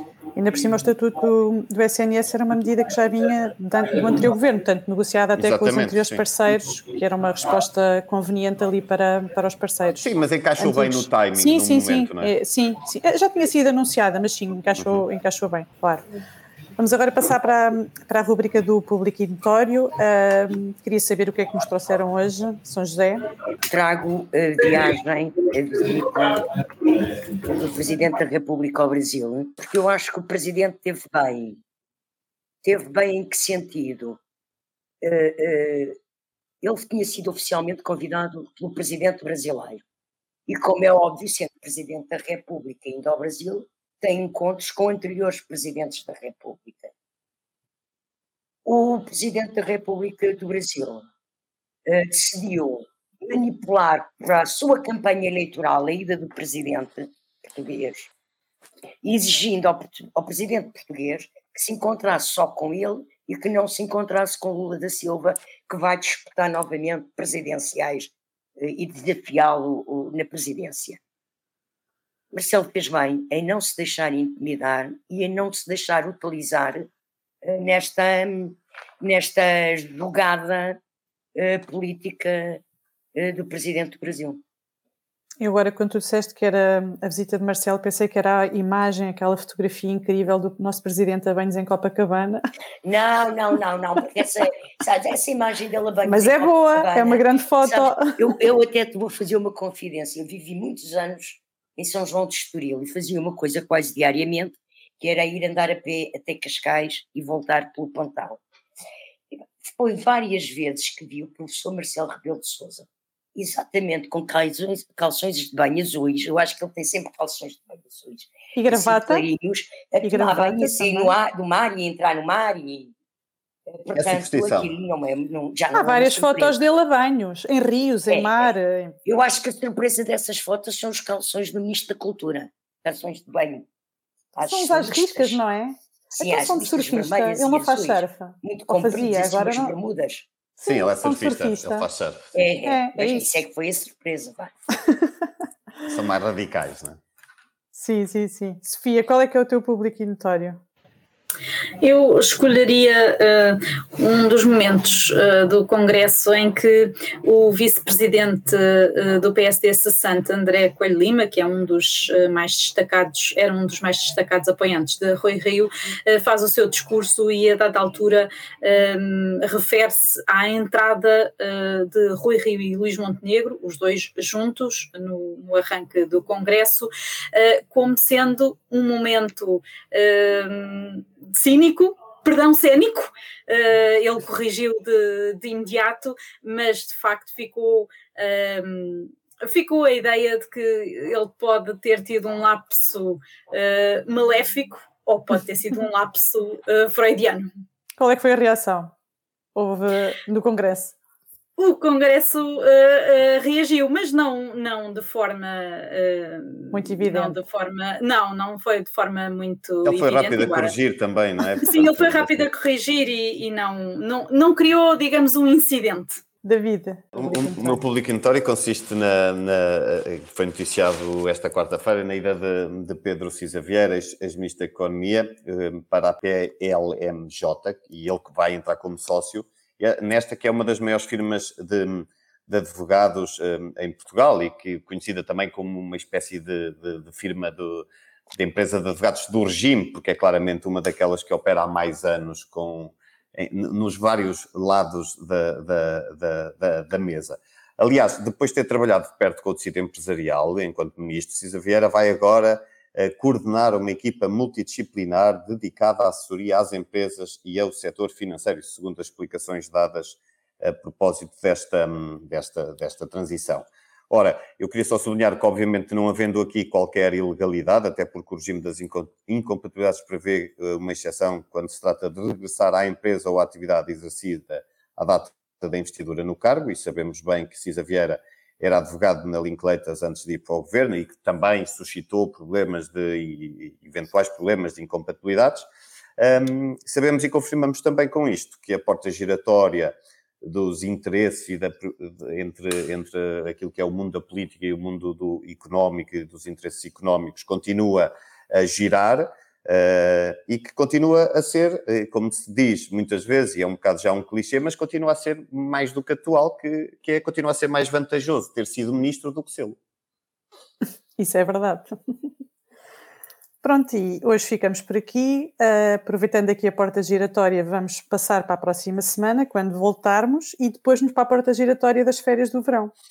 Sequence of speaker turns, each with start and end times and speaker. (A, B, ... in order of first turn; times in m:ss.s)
0:00.3-0:10.0 A
0:05.4-0:06.3 B
0:10.0-0:12.3 B
0:10.6-0:16.0 A
0:16.8-0:23.2 A
0:23.7-0:26.6 C
0:27.4-0:31.6 C
0:32.6-0:34.2 C
0:35.0-0:36.0 C
0:36.6-0:39.8 C
0:40.5-0:46.9 C
0:48.6-0:51.1 C
0:51.8-0:58.1 C
0:59.0-1:11.0 C
1:12.3-1:16.9 C
1:17.4-1:20.8 C
1:21.4-1:22.6 C
1:23.1-1:24.4 C
1:25.4-1:32.4 A
1:32.8-1:48.4 C
1:36.0-1:38.1 A
1:49.6-2:02.9 C
1:58.5-1:59.2 A
2:00.0-2:01.1 A
2:03.7-2:06.6 C
2:03.9-2:04.7 B
2:05.7-2:09.0 A
2:08.1-2:08.4 C
2:09.0-2:13.7 C
2:14.3-2:15.4 C
2:14.4-2:19.8 A
2:16.2-2:20.3 C
2:20.6-2:21.9 A
2:20.6-2:22.3 B
2:22.3-2:24.5 C
2:22.6-2:23.3 A
2:25.8-2:27.0 B
2:27.7-2:30.6 A
2:31.8-3:17.5 D
3:18.0-3:18.9 A
3:19.5-3:20.9 A
3:21.6-3:30.7 D
3:26.7-3:27.3 A
3:29.8-3:32.5 B
3:31.6-3:36.2 D
3:36.4-3:37.8 A
3:37.1-4:45.7 B
4:46.2-5:09.8 B
5:11.2-5:11.9 A
5:13.6-5:22.9 A